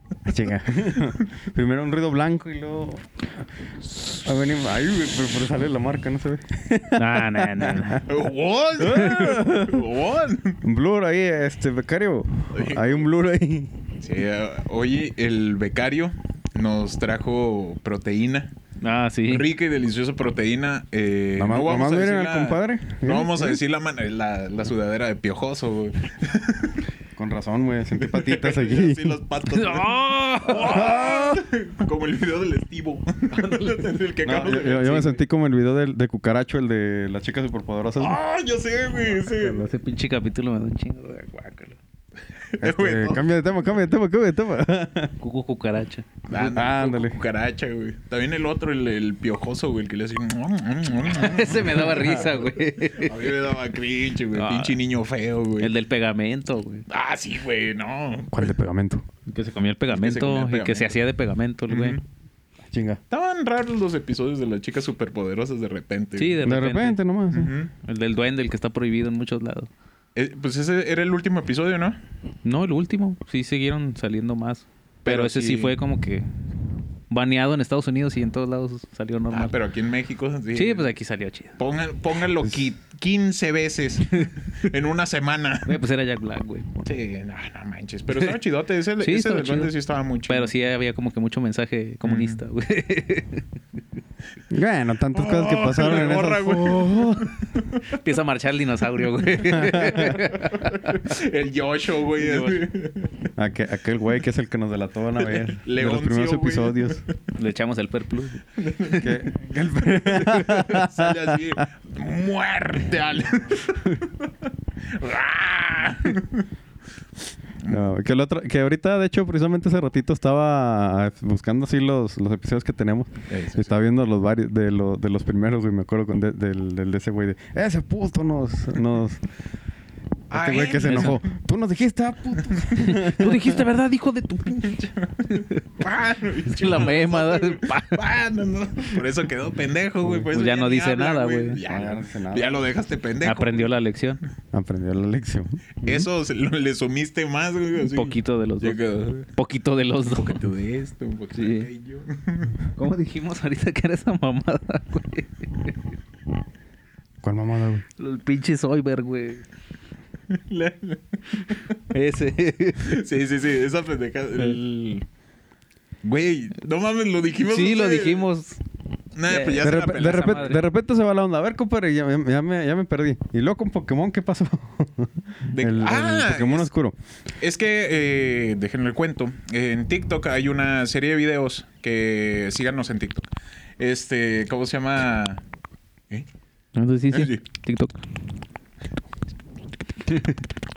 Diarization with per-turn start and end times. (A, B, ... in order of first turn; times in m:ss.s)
0:00.3-0:03.1 A
0:04.1-0:08.0 A
0:06.9-0:08.1 B
0:08.0-0:10.6 C
0:08.8-0:09.8 A
0:10.6-0:13.8 A
0:12.5-0:13.0 C
0:14.0-0:18.5 C
0:18.8-0:19.5 B
0:19.3-0:26.8 C
0:21.4-0:23.6 A
0:27.2-0:29.2 A
0:28.0-0:35.2 C
0:29.5-0:31.3 B
0:30.8-0:31.4 A
0:33.4-0:33.8 B
0:34.2-0:38.2 A
0:38.0-0:39.6 C
0:39.2-0:41.8 B
0:42.4-0:43.3 C
0:42.6-0:45.2 A
0:45.2-0:46.2 B
0:46.3-0:55.7 C
0:46.3-0:47.2 A
0:51.1-0:53.3 B
0:54.3-0:54.8 B
0:55.6-0:56.8 B
0:56.9-0:58.5 C
0:58.3-0:59.0 A
0:59.3-1:02.0 B
0:59.9-1:00.9 C
1:01.7-1:02.0 C
1:02.7-1:03.0 A
1:03.1-1:06.4 C
1:06.2-1:07.0 B
1:06.4-1:07.5 A
1:07.3-1:07.7 C
1:07.8-1:09.7 B
1:10.2-1:12.0 C
1:12.4-1:16.3 B
1:15.0-1:15.8 C
1:17.1-1:19.5 B
1:19.3-1:20.9 C
1:20.5-1:21.6 B
1:21.6-1:25.8 C
1:25.6-1:26.7 B
1:26.8-1:30.5 C
1:29.0-1:29.7 B
1:30.3-1:33.5 B
1:32.0-1:32.4 C
1:34.5-1:37.4 A
1:35.1-1:37.9 C
1:37.9-1:41.0 B
1:39.5-1:40.1 A
1:40.1-1:43.3 C
1:42.2-1:42.7 B
1:43.4-1:47.0 A
1:45.3-1:47.1 C
1:47.4-1:49.1 B
1:48.6-1:49.1 C
1:49.0-1:51.6 A
1:50.1-1:54.1 C
1:54.9-1:56.5 C
1:57.6-1:57.9 C
1:57.7-2:09.2 A
2:03.3-2:03.7 C
2:10.3-2:11.2 C
2:10.3-2:13.5 A
2:10.8-2:11.2 B
2:12.8-2:15.7 B
2:15.0-2:23.7 C
2:16.5-2:18.0 B
2:20.3-2:21.6 B
2:21.6-2:22.6 A
2:23.2-2:24.2 B
2:24.5-2:26.0 A
2:25.8-2:29.3 C
2:27.9-2:30.4 B
2:30.1-2:32.6 C
2:31.4-2:31.7 B
2:32.8-2:35.8 B
2:37.2-2:37.8 A
2:38.0-2:39.4 B
2:40.3-2:41.8 C
2:41.9-2:43.0 B
2:42.8-2:45.1 C
2:46.0-2:48.3 C
2:47.5-2:48.6 B
2:49.2-2:50.6 C
2:49.3-2:50.6 B
2:49.6-2:57.0 A
2:55.5-2:56.7 C
2:57.4-3:03.3 C
3:03.8-3:05.4 C
3:06.8-3:08.0 B
3:07.1-3:07.4 C
3:10.1-3:10.4 B